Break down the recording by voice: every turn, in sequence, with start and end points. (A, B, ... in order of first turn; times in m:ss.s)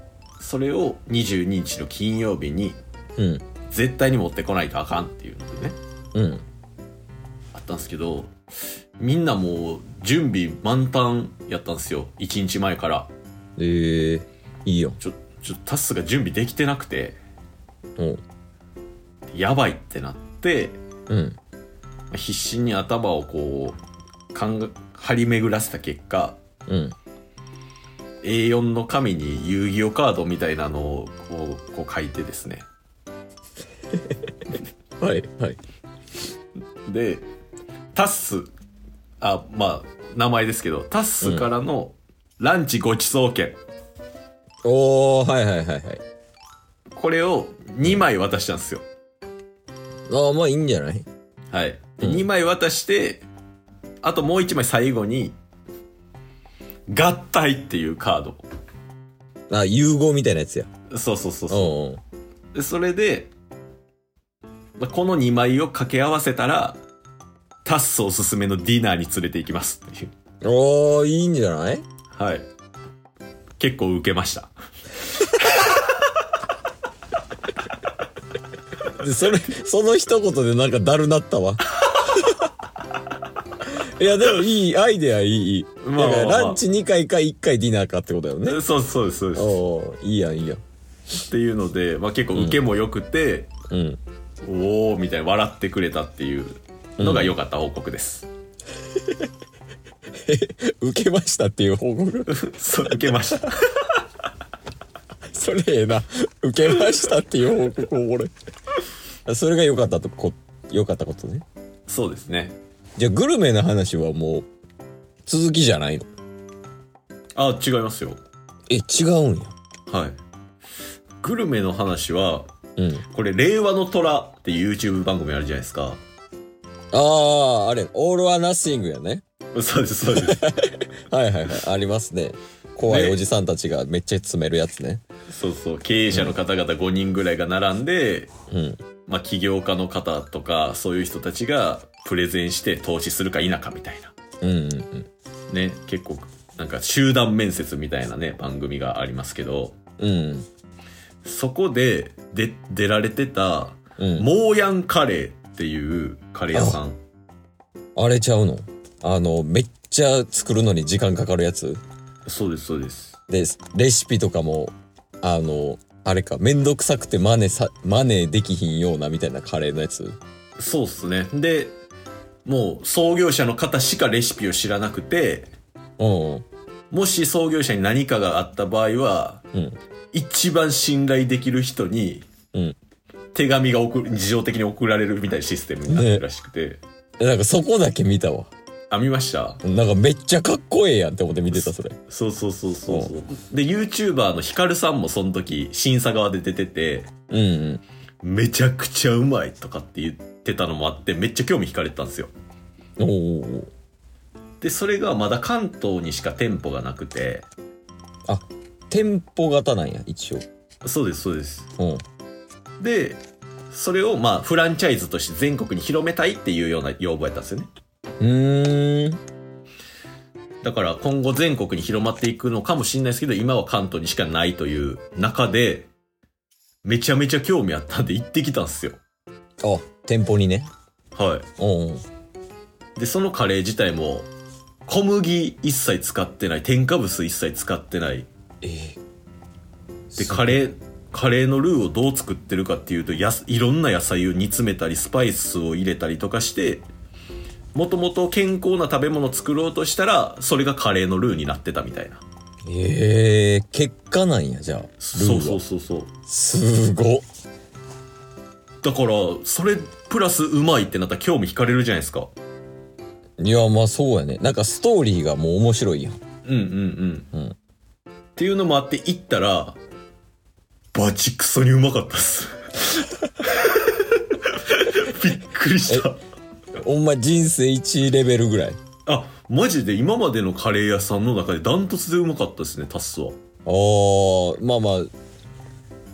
0:00.4-0:02.8 A
0:03.2-0:03.5 B
0:03.7-0:05.8 A
0:06.2-0:06.4 B
0:07.5-0:08.4 A
0:09.0-0:13.1 A
0:13.6-0:15.0 B
0:15.0-0:17.2 A
0:19.3-0:20.8 A
0:21.1-0:21.4 B
0:22.1-0:23.8 A
0:24.3-0:26.4 A
0:26.7-0:27.0 B
0:28.2-0:32.6 A
0:35.0-0:35.6 B
0:36.9-0:37.3 A
0:37.9-0:38.5 A
0:39.2-0:43.6 A
0:41.2-0:41.5 B
0:44.6-0:46.0 B
0:46.9-0:48.8 A
0:50.1-0:51.1 B
0:51.5-0:53.3 A
0:54.0-0:55.4 A
0:56.9-0:58.4 A
0:59.5-1:00.7 B
1:00.9-1:01.8 A
1:01.5-1:02.0 B
1:02.5-1:03.3 A
1:04.8-1:06.8 A
1:07.6-1:10.1 A
1:10.4-1:11.8 B
1:12.1-1:12.5 A
1:13.6-1:14.5 A
1:19.0-1:21.6 B
1:23.8-1:28.6 B
1:25.8-1:26.6 A
1:28.5-1:29.6 A
1:29.4-1:30.6 B
1:31.3-1:33.5 A
1:32.3-1:32.6 B
1:33.7-1:34.0 B
1:34.4-1:38.3 A
1:37.0-1:37.4 B
1:40.3-1:43.4 B
1:42.3-1:44.0 A
1:45.3-1:48.3 B
1:49.3-1:51.4 B
1:51.9-1:52.6 A
1:53.0-1:54.5 B
1:55.3-1:56.1 B
1:57.4-1:58.2 A
1:58.7-1:59.6 B
1:59.9-2:00.2 A
2:01.2-2:02.5 A
2:02.8-2:03.0 B
2:03.1-2:06.0 A
2:06.9-2:09.2 B
2:09.5-2:10.4 A
2:10.2-2:15.0 B
2:12.9-2:13.2 A
2:15.3-2:18.3 A
2:18.5-2:18.8 B
2:19.1-2:24.2 A
2:24.4-2:25.1 B
2:25.5-2:29.8 A
2:30.0-2:30.5 B
2:31.2-2:37.0 A
2:34.0-2:34.3 B
2:36.5-2:36.8 B
2:38.0-2:41.8 B
2:42.3-2:43.2 A
2:43.3-2:50.2 B
2:50.6-2:51.8 A
2:52.4-2:55.5 A
2:56.0-2:56.4 B
2:56.9-2:59.4 A
3:00.1-3:02.3 A
3:03.3-3:06.8 A
3:05.9-3:06.2 B
3:07.2-3:08.5 B
3:08.9-3:09.6 A
3:09.6-3:12.0 B
3:11.5-3:17.1 A
3:17.3-3:17.8 B
3:18.2-3:22.3 A
3:23.0-3:23.7 B
3:24.6-3:27.5 A
3:28.3-3:30.4 B
3:30.8-3:31.7 A
3:31.8-3:32.0 B
3:32.8-3:37.7 A
3:38.2-3:39.2 B
3:40.6-3:45.9 A
3:46.8-3:49.0 A
3:49.6-3:50.7 B
3:51.2-3:51.5 A
3:51.6-3:52.0 B
3:53.0-3:54.3 A
3:54.9-3:58.3 A
3:58.6-3:59.0 B
4:00.1-4:00.6 B
4:00.2-4:06.9 A
4:07.7-4:12.2 A
4:12.7-4:15.6 B
4:15.0-4:16.1 A
4:16.3-4:17.2 B
4:18.8-4:22.3 A
4:23.4-4:26.2 B
4:26.4-4:27.3 A
4:28.4-4:29.8 A
4:30.9-4:36.2 A
4:36.8-4:38.8 B
4:39.1-4:43.4 A
4:43.7-4:45.1 B